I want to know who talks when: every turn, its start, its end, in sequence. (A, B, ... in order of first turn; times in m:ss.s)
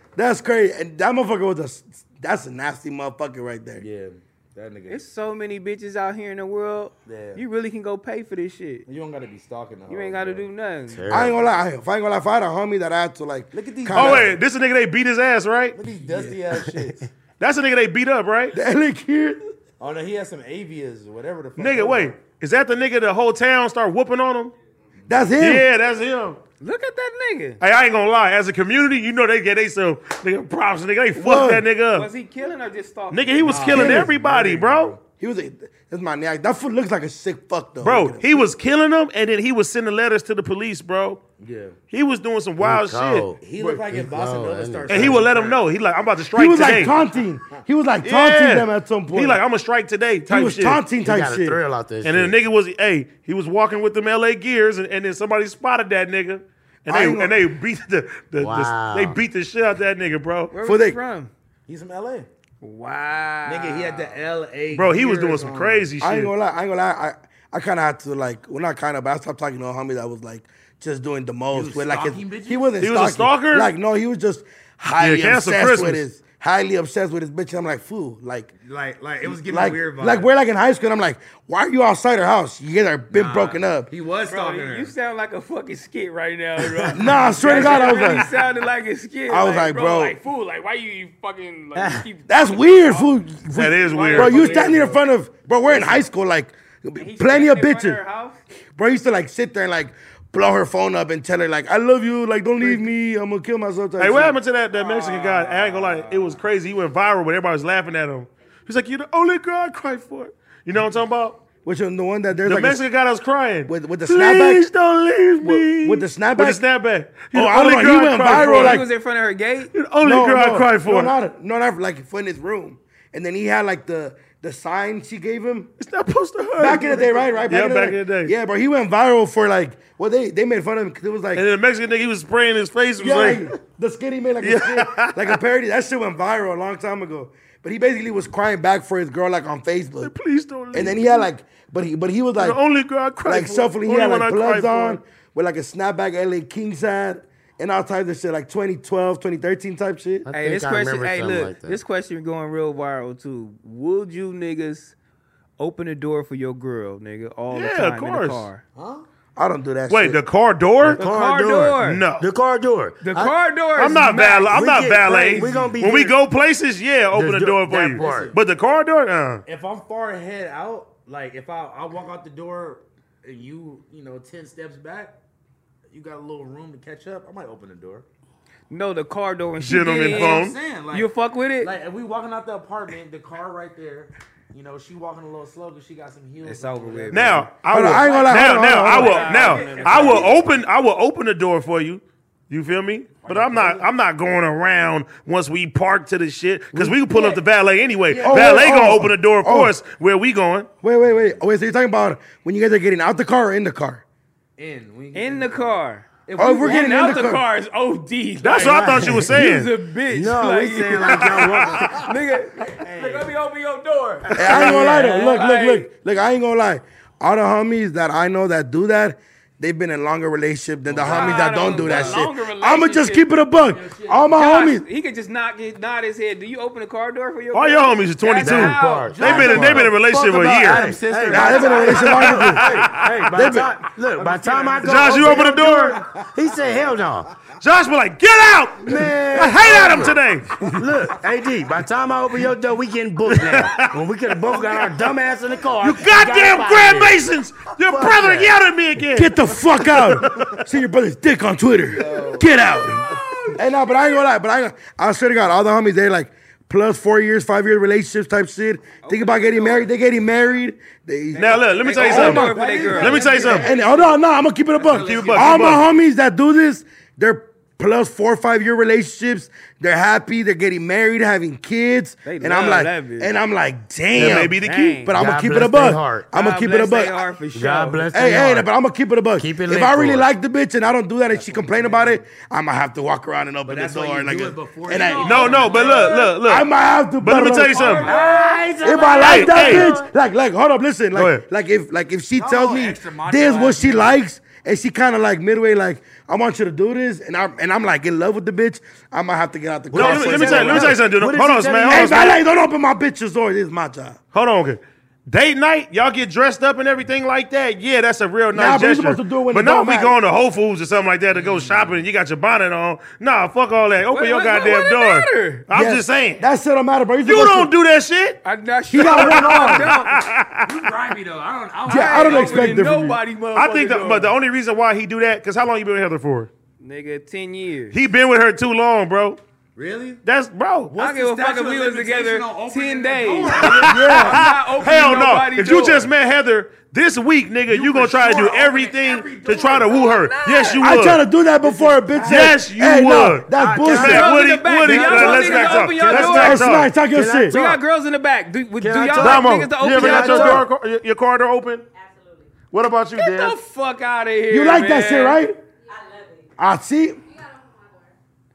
0:00.2-0:03.8 A
0:03.8-0:05.0 B
0:04.9-0:08.9 C
0:07.1-0:07.4 B
0:08.9-0:10.5 B
0:09.9-0:11.1 C
0:10.9-0:11.5 D
0:11.1-0:14.3 A
0:13.5-0:14.4 B
0:13.9-0:15.8 E
0:15.7-0:17.1 B
0:16.6-0:16.9 D
0:17.4-0:18.6 E
0:18.5-0:19.5 A
0:19.8-0:22.2 B
0:21.6-0:24.6 E
0:25.1-0:25.7 A
0:25.4-0:26.4 E
0:26.6-0:27.6 C
0:27.6-0:32.1 E
0:31.2-0:31.7 A
0:31.9-0:33.7 C
0:33.1-0:35.0 E
0:33.4-0:35.0 B
0:33.7-0:34.1 A
0:35.1-0:38.5 A
0:37.8-0:41.2 E
0:41.4-0:41.8 B
0:41.9-0:43.3 E
0:42.6-0:45.3 D
0:43.4-0:45.6 B
0:44.9-0:46.9 E
0:46.3-0:49.4 A
0:48.0-0:50.8 E
0:50.3-0:51.6 A
0:51.0-0:52.4 D
0:52.0-1:00.5 E
0:56.9-0:57.4 A
0:58.4-0:59.2 D
1:00.5-1:01.3 C
1:00.6-1:01.0 A
1:01.7-1:02.3 B
1:02.6-1:04.2 C
1:03.4-1:05.9 B
1:04.7-1:06.3 E
1:06.0-1:18.5 A
1:11.5-1:12.8 B
1:12.8-1:13.7 E
1:15.0-1:16.0 E
1:18.6-1:20.3 B
1:19.2-1:23.9 A
1:23.1-1:24.9 B
1:24.3-1:33.2 C
1:26.9-1:28.3 A
1:27.3-1:28.3 B
1:29.3-1:30.2 A
1:31.8-1:32.1 D
1:32.3-1:38.0 A
1:33.5-1:34.6 E
1:33.8-1:34.8 C
1:34.2-1:35.0 B
1:37.0-1:38.4 C
1:38.8-1:44.4 A
1:44.0-1:51.4 E
1:44.7-1:46.4 C
1:51.6-1:52.8 A
1:52.4-1:58.8 E
1:53.7-1:54.6 A
1:55.4-1:56.6 A
1:57.3-1:58.8 A
1:58.2-1:59.7 C
1:59.7-2:01.1 E
2:00.0-2:05.7 A
2:05.8-2:08.3 E
2:06.6-2:11.4 A
2:07.2-2:07.4 B
2:11.3-2:13.5 E
2:13.0-2:20.1 A
2:14.4-2:15.4 E
2:20.0-2:21.3 E
2:20.7-2:22.6 A
2:22.4-2:25.0 E
2:23.2-2:30.3 A
2:30.2-2:31.8 D
2:30.3-2:34.9 C
2:35.6-2:38.6 C
2:37.5-2:38.4 E
2:38.8-2:39.0 B
2:39.4-2:40.2 A
2:39.9-2:41.0 E
2:40.8-2:43.4 D
2:41.0-2:42.0 C
2:41.8-2:42.3 E
2:43.0-2:44.6 C
2:43.8-2:49.4 E
2:44.5-2:46.2 D
2:45.4-2:45.8 B
2:47.1-2:48.3 D
2:47.9-2:48.4 B
2:49.5-2:55.2 B
2:55.9-2:58.0 B
2:58.7-3:01.7 C
2:59.6-3:00.6 E
3:00.1-3:10.4 B
3:06.4-3:07.4 C
3:07.1-3:20.7 E
3:07.7-3:09.3 A
3:08.0-3:10.4 C
3:13.2-3:13.9 B
3:18.1-3:18.9 B
3:18.2-3:19.7 A
3:20.8-3:24.0 A
3:21.1-3:21.4 B
3:24.6-3:27.1 B
3:25.1-3:26.1 C
3:26.4-3:27.4 A
3:26.6-3:35.9 C
3:28.4-3:29.7 E
3:28.6-3:29.4 D
3:30.1-3:32.1 D
3:31.1-3:31.9 E
3:32.7-3:33.3 B
3:34.3-3:35.0 E
3:34.4-3:44.8 A
3:34.4-3:35.4 D
3:40.9-3:42.2 B
3:41.0-3:43.2 C
3:43.6-3:44.4 B
3:44.3-3:49.7 C
3:47.5-3:50.9 E
3:48.4-3:50.0 D
3:49.0-3:56.5 B
3:50.6-3:57.3 D
3:51.3-3:52.7 A
3:51.4-3:52.1 C
3:52.0-3:53.2 E
3:53.3-3:53.8 A
3:54.8-3:56.0 E
3:57.6-4:00.6 E
3:58.8-4:00.2 D
4:00.7-4:07.2 D
4:03.3-4:04.0 E
4:05.8-4:10.0 E
4:07.8-4:08.6 D
4:09.2-4:22.6 A
4:11.9-4:12.5 B
4:13.1-4:14.0 C
4:19.0-4:19.9 C
4:21.3-4:23.9 C
4:21.4-4:23.7 E
4:21.9-4:24.2 B
4:23.5-4:37.2 A
4:24.8-4:25.9 B
4:25.0-4:25.8 E
4:32.2-4:33.3 C
4:34.1-4:35.1 E
4:34.2-4:35.2 C
4:35.2-4:36.3 D
4:36.3-4:38.1 C
4:37.5-4:38.7 D
4:38.1-4:48.2 A
4:39.4-4:40.3 D
4:41.3-4:42.2 B
4:43.7-4:46.3 B
4:44.9-4:46.4 C
4:45.2-4:46.7 E
4:47.2-4:48.1 E
4:47.7-4:48.6 C
4:48.0-4:48.4 B
4:48.1-4:50.1 D
4:48.8-5:01.1 A
4:49.2-4:49.9 E
4:51.1-4:51.4 E
4:52.4-4:54.2 B
4:59.9-5:02.4 D
4:59.9-5:02.4 E
5:01.8-5:04.2 A
5:04.3-5:16.4 E
5:08.5-5:10.1 A
5:11.3-5:12.0 B
5:14.1-5:15.7 C
5:15.7-5:17.7 A
5:17.2-5:18.4 E
5:18.4-5:20.2 C
5:18.9-5:19.9 A
5:19.0-5:20.8 E
5:19.1-5:19.7 B
5:20.6-5:22.9 B
5:21.9-5:24.3 C
5:21.9-5:23.2 A
5:23.6-5:26.5 E
5:26.8-5:28.0 C
5:27.9-5:29.4 E
5:29.8-5:30.2 B
5:30.2-5:30.9 E
5:30.9-5:34.2 B
5:31.0-5:36.1 C
5:33.5-5:41.2 E
5:33.8-5:34.4 A
5:37.7-5:40.2 B
5:39.8-5:40.9 C
5:40.8-5:44.4 A
5:41.6-5:42.6 B
5:42.2-5:46.9 E
5:43.5-5:46.6 D
5:43.8-5:46.7 C
5:46.1-5:47.6 A
5:47.1-5:47.8 D
5:47.5-5:50.7 C
5:48.8-5:50.7 D
5:49.2-5:51.8 E
5:51.9-5:52.6 F
5:52.7-5:53.6 E
5:53.2-5:55.4 C
5:54.5-5:55.6 A
5:55.8-5:56.5 F
5:56.6-5:57.2 A
5:57.3-5:58.1 F